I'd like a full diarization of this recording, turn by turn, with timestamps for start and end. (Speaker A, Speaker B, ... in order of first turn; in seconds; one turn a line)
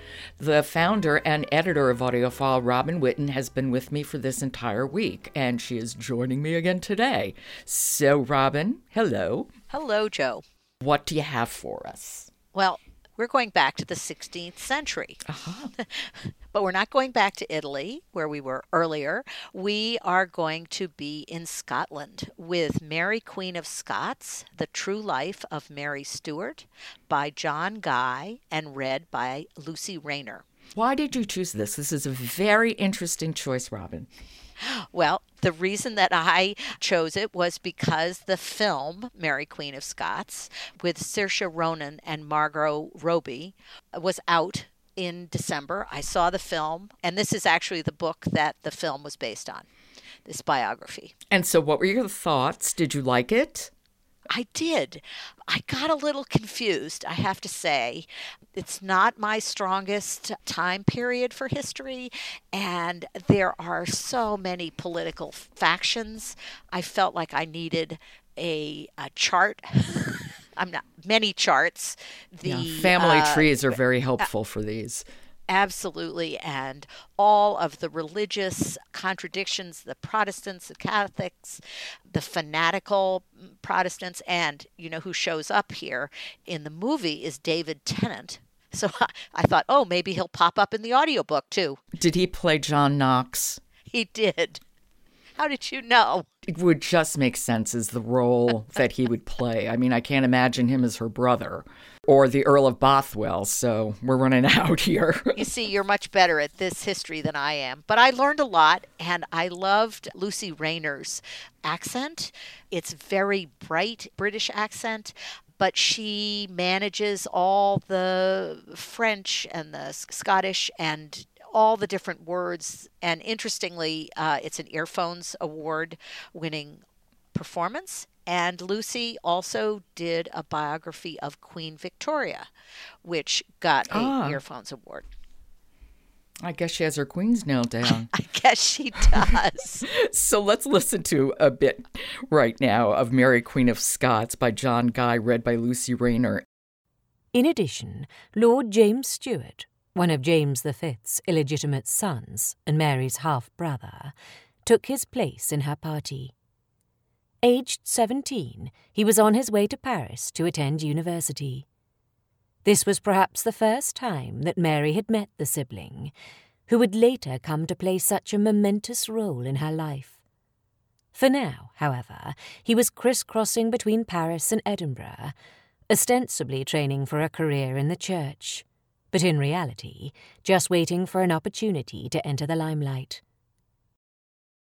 Speaker A: 0.4-9.5
Speaker B: 9.7-10.4
Speaker A: 10.8-12.3
Speaker B: 12.5-15.2
Speaker A: 15.2-15.7
Speaker B: 15.8-30.4
Speaker A: 30.7-34.1
Speaker B: 34.6-49.7
Speaker B: 50.2-51.1
Speaker A: 51.3-53.7
Speaker B: 54.3-73.7
Speaker A: 72.4-75.0
Speaker B: 75.5-91.8
Speaker A: 92.0-93.6
Speaker B: 93.9-94.6
Speaker B: 95.3-96.3
Speaker A: 96.4-105.4
Speaker B: 105.3-132.5
Speaker B: 133.0-135.1
Speaker A: 133.9-134.4
Speaker A: 136.4-138.1
Speaker B: 138.0-139.9
Speaker A: 139.9-146.4
Speaker C: 147.3-154.1
Speaker C: 154.6-156.3
Speaker C: 157.4-161.6
Speaker C: 162.6-166.1
Speaker C: 166.7-170.1
Speaker C: 171.1-175.3
Speaker C: 175.9-183.2